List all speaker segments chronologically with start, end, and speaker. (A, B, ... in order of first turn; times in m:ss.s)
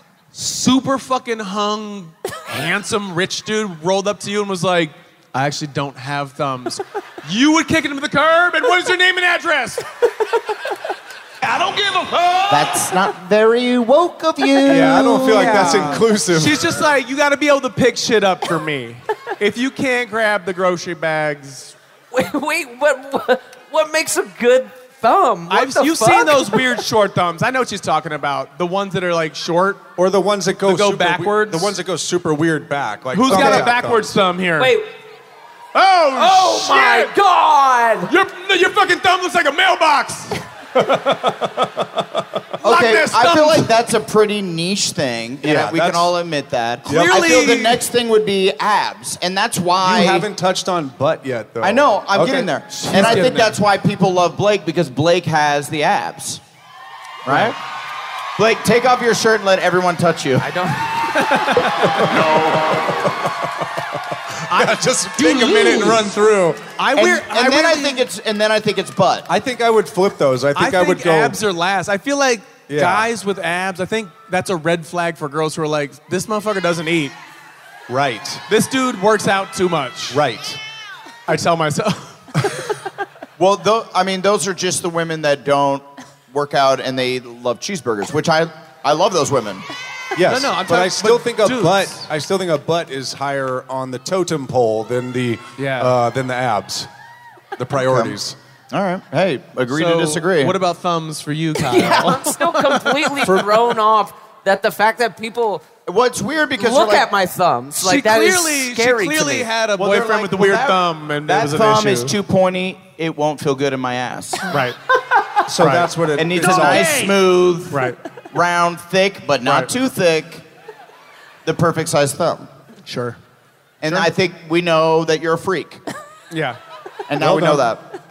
0:00.3-0:09.8 A
0:11.4-0:12.7 A
0:12.5-0:16.0 B
0:14.6-0:16.7 C
0:14.6-0:21.7 A
0:22.1-0:26.7 D
0:25.5-0:29.8 A
0:30.0-0:34.1 C
0:30.6-0:31.8 A
0:33.1-0:34.7 A
0:34.6-0:34.9 D
0:35.7-0:37.1 A
0:36.2-0:38.1 D
0:38.1-0:40.4 A
0:40.7-0:42.5 C
0:42.6-0:43.7 A
0:42.6-0:50.3 B
0:45.4-0:46.1 C
0:46.8-0:47.8 C
0:46.9-0:47.8 A
0:49.8-0:53.5 C
0:51.6-0:56.4 B
0:52.7-0:53.6 A
0:57.2-0:57.6 B
0:57.3-0:57.5 C
0:58.4-1:00.5 B
1:00.4-1:01.1 D
1:00.9-1:02.2 A
1:01.8-1:06.7 C
1:04.5-1:06.0 A
1:06.8-1:08.1 A
1:06.9-1:09.3 B
1:09.3-1:11.4 C
1:10.5-1:17.1 A
1:12.7-1:13.1 C
1:17.9-1:18.4 C
1:18.5-1:20.2 A
1:20.1-1:20.6 C
1:21.3-1:22.7 A
1:23.4-1:29.6 B
1:30.1-1:36.9 C
1:30.2-1:32.1 A
1:35.6-1:35.9 A
1:37.6-1:38.4 C
1:37.8-1:38.2 B
1:38.7-1:40.6 B
1:39.7-1:43.4 A
1:41.6-1:45.6 D
1:45.8-1:47.1 B
1:46.6-1:49.5 D
1:47.8-1:52.1 A
1:49.8-1:54.5 B
1:54.5-1:54.8 A
1:55.4-1:57.1 C
1:55.5-1:55.9 A
1:56.2-2:00.4 B
1:56.4-1:57.0 A
1:57.7-1:58.0 A
1:59.4-1:59.7 A
2:01.4-2:02.5 B
2:02.8-2:03.2 A
2:03.8-2:05.8 B
2:06.3-2:06.6 A
2:07.1-2:07.8 B
2:07.2-2:07.6 C